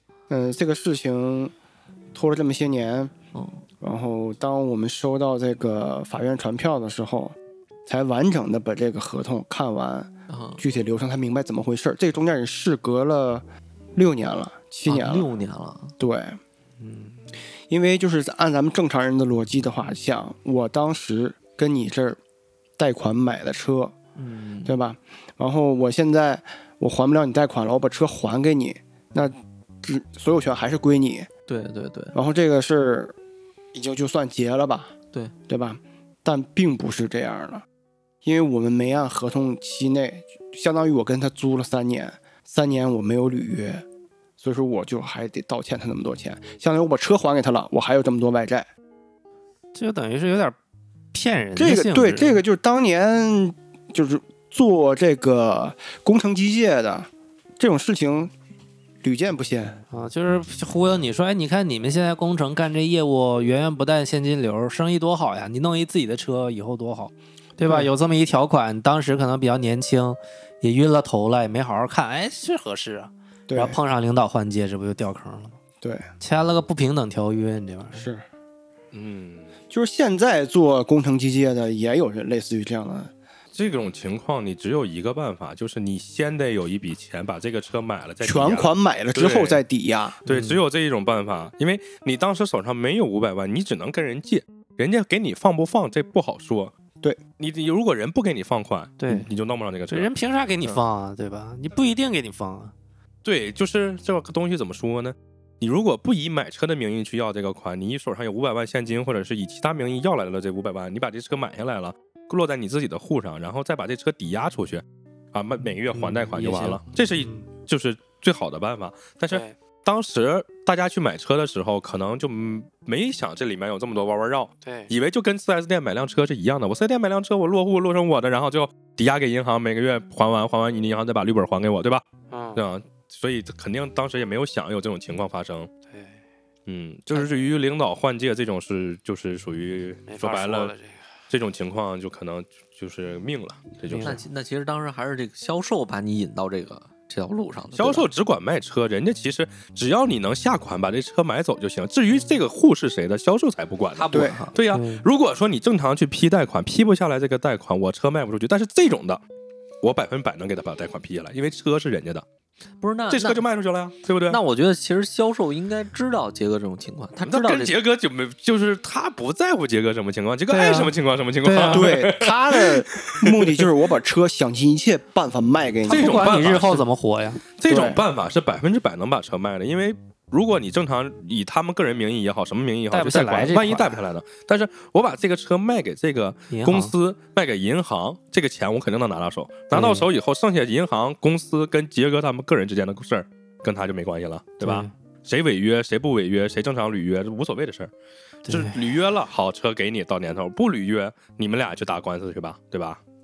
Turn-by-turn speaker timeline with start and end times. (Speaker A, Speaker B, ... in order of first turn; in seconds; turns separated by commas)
Speaker A: 0.3-1.5, Speaker A: 2.1-3.1, Speaker B: 3.3-3.6, Speaker A: 3.8-7.4, Speaker A: 7.9-15.3, Speaker B: 10.3-10.6, Speaker B: 14.9-15.9, Speaker A: 16.0-16.4, Speaker C: 16.8-17.3, Speaker A: 17.7-22.2, Speaker A: 22.8-23.9, Speaker B: 24.2-24.8, Speaker A: 24.6-31.3, Speaker B: 31.5-32.2, Speaker A: 32.1-33.1, Speaker A: 33.7-34.9, Speaker A: 35.5-37.6, Speaker A: 38.2-43.9, Speaker A: 44.4-48.7, Speaker C: 49.8-50.6, Speaker C: 51.1-52.4, Speaker A: 51.6-58.3, Speaker A: 59.0-59.8, Speaker C: 59.9-75.6, Speaker A: 67.6-67.9, Speaker A: 73.5-73.8, Speaker A: 75.8-76.1, Speaker C: 76.2-78.1, Speaker A: 77.9-78.2, Speaker D: 78.9-79.5, Speaker A: 79.7-83.1, Speaker D: 83.5-89.6, Speaker A: 88.2-90.2, Speaker D: 90.2-96.7, Speaker C: 90.3-90.6, Speaker D: 97.4-100.1, Speaker C: 99.0-99.3, Speaker C: 99.9-102.7, Speaker D: 103.2-135.7, Speaker C: 115.9-117.5, Speaker C: 119.3-119.6, Speaker C: 124.6-124.9, Speaker C: 132.3-132.6, Speaker C: 135.9-136.2, Speaker D: 136.7-140.7, Speaker C: 140.1-141.0, Speaker D: 141.3-144.2, Speaker C: 143.9-144.2, Speaker B: 144.0-148.1, Speaker D: 147.8-159.2, Speaker B: 153.9-154.6, Speaker A: 154.1-154.4, Speaker C: 154.7-155.1, Speaker D: 159.8-162.2, Speaker B: 162.8-163.4, Speaker D: 163.1-164.4, Speaker B: 164.3-167.8, Speaker D: 167.2-173.7, Speaker C: 170.5-172.0, Speaker A: 171.6-176.3, Speaker C: 175.9-177.4, Speaker D: 175.9-176.8, Speaker D: 177.6-197.9, Speaker A: 177.7-178.0, Speaker C: 182.9-184.0, Speaker C: 186.5-186.9, Speaker C: 189.7-190.1, Speaker C: 194.6-194.9, Speaker C: 198.5-198.8, Speaker D: 198.5-203.0